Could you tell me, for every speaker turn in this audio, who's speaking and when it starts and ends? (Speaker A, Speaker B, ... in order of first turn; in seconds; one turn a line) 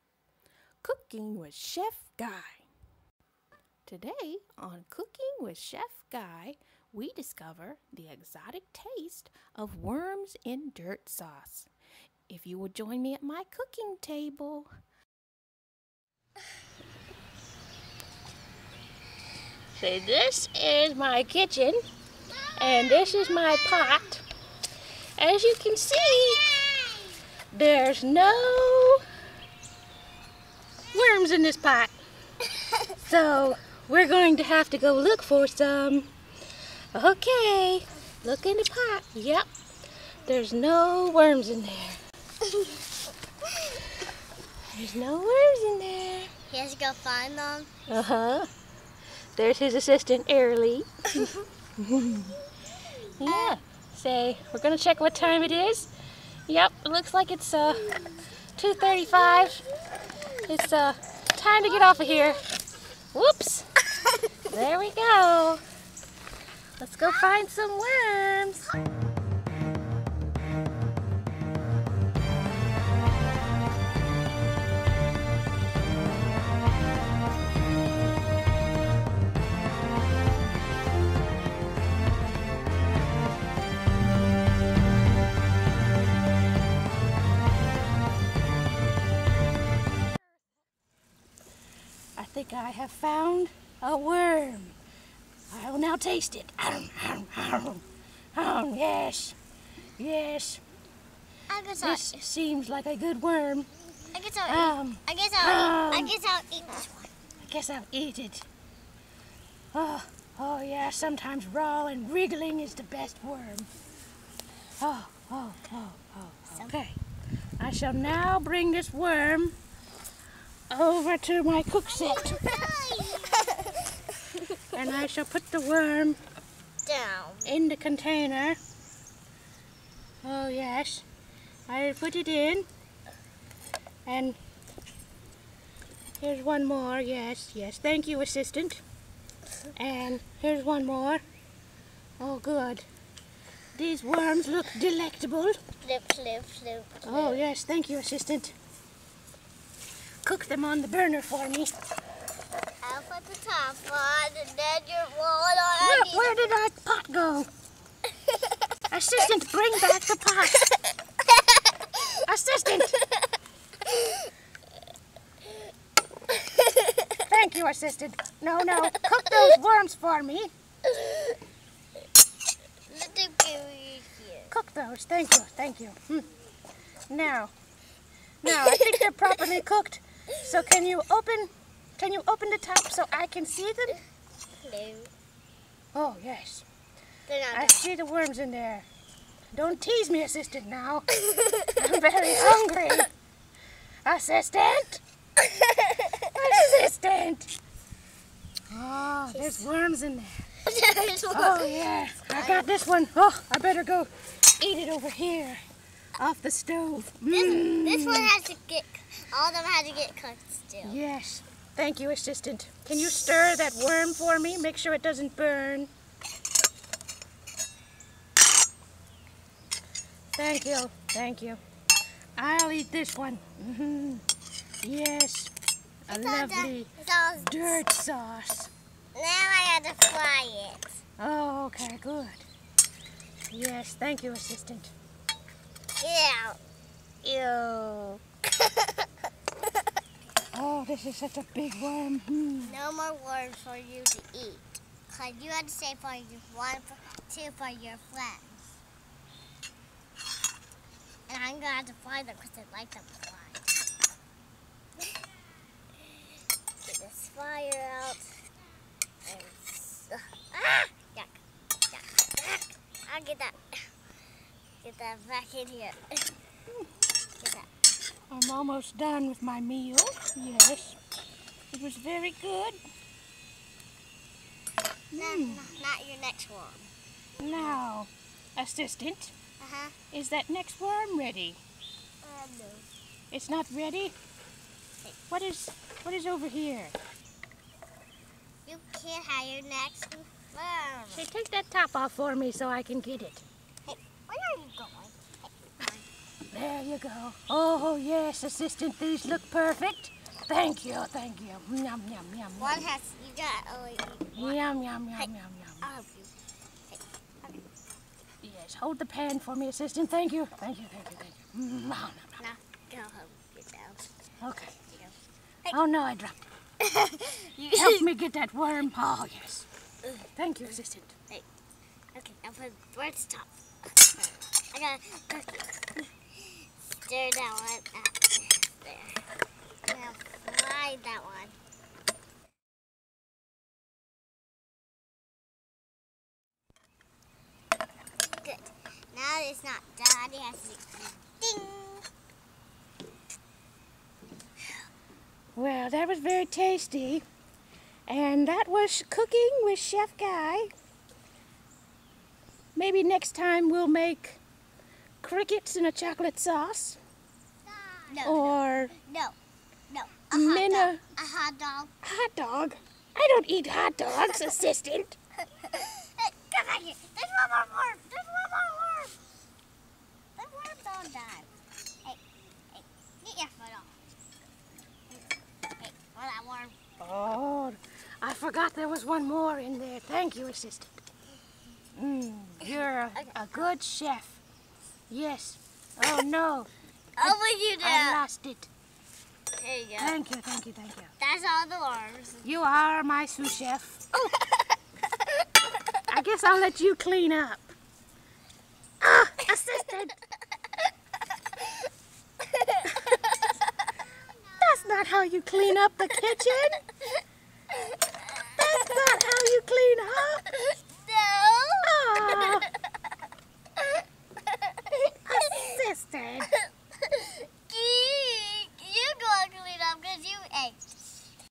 Speaker A: 0.8-2.7
Speaker A: 3.9-11.7
Speaker A: 12.3-14.7
Speaker A: 19.8-21.8
Speaker A: 22.5-24.2
Speaker A: 25.2-26.5
Speaker B: 26.2-27.1
Speaker A: 27.5-29.0
Speaker A: 30.9-31.9
Speaker A: 33.0-36.1
Speaker A: 36.9-39.5
Speaker A: 40.2-42.0
Speaker A: 44.7-46.3
Speaker B: 46.5-47.7
Speaker A: 47.9-48.5
Speaker A: 49.4-52.4
Speaker A: 53.2-55.9
Speaker B: 53.2-53.6
Speaker A: 56.5-59.6
Speaker A: 60.4-62.4
Speaker A: 63.1-63.7
Speaker A: 64.5-65.6
Speaker A: 66.8-68.8
Speaker A: 92.2-94.7
Speaker A: 95.5-99.4
Speaker A: 100.0-100.6
Speaker B: 101.5-102.2
Speaker A: 101.8-103.7
Speaker B: 104.1-107.1
Speaker A: 104.5-106.1
Speaker A: 107.4-108.5
Speaker A: 109.7-113.7
Speaker A: 114.8-117.0
Speaker A: 117.6-119.5
Speaker A: 120.7-122.5
Speaker B: 121.8-124.6
Speaker A: 124.7-126.2
Speaker B: 126.8-127.5
Speaker A: 127.4-128.6
Speaker A: 130.2-131.0
Speaker A: 131.7-132.7
Speaker A: 134.1-134.4
Speaker A: 136.2-138.8
Speaker A: 139.7-141.2
Speaker A: 142.2-142.8
Speaker A: 143.7-145.6
Speaker B: 145.8-147.4
Speaker A: 147.0-148.5
Speaker A: 150.2-151.7
Speaker B: 152.8-156.5
Speaker A: 155.8-157.5
Speaker A: 158.9-160.7
Speaker A: 162.2-163.0
Speaker B: 163.9-164.3
Speaker B: 166.5-167.1
Speaker A: 167.1-170.5
Speaker B: 169.1-169.6
Speaker B: 170.9-171.3
Speaker B: 172.9-174.6
Speaker A: 174.5-176.3
Speaker A: 177.1-177.5
Speaker A: 178.4-184.0
Speaker B: 178.5-179.6
Speaker B: 184.6-185.1
Speaker A: 185.9-186.7
Speaker B: 187.3-187.9
Speaker A: 187.5-188.9
Speaker A: 189.5-191.1
Speaker B: 191.2-191.8
Speaker A: 191.7-193.1
Speaker A: 194.0-195.0
Speaker B: 195.4-196.2
Speaker A: 196.2-197.5
Speaker A: 198.7-200.5
Speaker B: 199.1-199.7
Speaker B: 200.6-202.7
Speaker A: 201.3-205.6
Speaker A: 206.2-208.3
Speaker B: 207.3-211.0
Speaker A: 210.8-215.9
Speaker A: 220.3-221.6
Speaker A: 222.4-224.2
Speaker A: 224.8-225.5
Speaker A: 226.1-228.7
Speaker B: 226.1-227.8
Speaker B: 229.1-231.0
Speaker A: 231.2-232.5
Speaker A: 233.5-234.9
Speaker B: 236.0-236.6
Speaker A: 237.2-238.2
Speaker A: 240.5-242.8
Speaker B: 242.6-248.6
Speaker B: 251.3-253.7
Speaker B: 256.8-258.4
Speaker B: 259.2-261.4
Speaker B: 261.9-263.8
Speaker B: 264.8-266.3
Speaker B: 267.4-267.7
Speaker A: 268.3-271.0
Speaker A: 271.7-272.8
Speaker A: 275.1-275.8
Speaker B: 275.1-277.8
Speaker A: 277.4-279.4
Speaker B: 279.6-279.9
Speaker A: 280.1-281.6
Speaker B: 282.2-282.9
Speaker A: 283.3-284.1
Speaker A: 285.3-286.9
Speaker B: 288.6-291.3
Speaker A: 291.1-293.4
Speaker B: 293.9-296.1
Speaker A: 296.5-302.9
Speaker B: 302.6-306.3
Speaker A: 304.4-305.9
Speaker B: 306.9-307.6
Speaker A: 308.4-312.4
Speaker B: 312.4-314.1
Speaker A: 314.4-314.8
Speaker B: 314.8-315.8
Speaker A: 315.7-316.5
Speaker B: 316.8-318.1
Speaker A: 317.8-319.7
Speaker A: 320.3-321.2
Speaker B: 322.1-325.8
Speaker B: 327.0-329.2
Speaker B: 329.9-331.6
Speaker B: 338.4-342.1
Speaker A: 345.5-347.2
Speaker A: 348.1-350.7
Speaker A: 352.7-354.4
Speaker A: 355.2-357.0
Speaker B: 357.9-359.4
Speaker A: 358.2-358.9
Speaker B: 359.9-361.9
Speaker A: 360.3-361.0
Speaker A: 362.0-365.2
Speaker B: 364.1-364.6
Speaker B: 365.5-369.2
Speaker B: 370.4-371.5
Speaker B: 372.7-374.0
Speaker B: 375.8-376.8
Speaker A: 377.0-381.0
Speaker A: 381.9-384.4
Speaker B: 382.6-383.7
Speaker A: 385.1-386.7
Speaker B: 387.2-388.2
Speaker A: 387.2-388.7
Speaker B: 389.6-390.2
Speaker A: 390.0-391.1
Speaker B: 391.2-392.5
Speaker A: 392.4-394.3
Speaker A: 396.0-397.7
Speaker A: 399.0-400.2
Speaker B: 404.2-405.4
Speaker A: 404.6-406.8
Speaker B: 408.3-408.9
Speaker A: 408.5-410.7
Speaker B: 410.6-412.7
Speaker A: 411.8-412.7
Speaker B: 414.9-415.8
Speaker A: 415.2-416.5
Speaker B: 417.0-420.9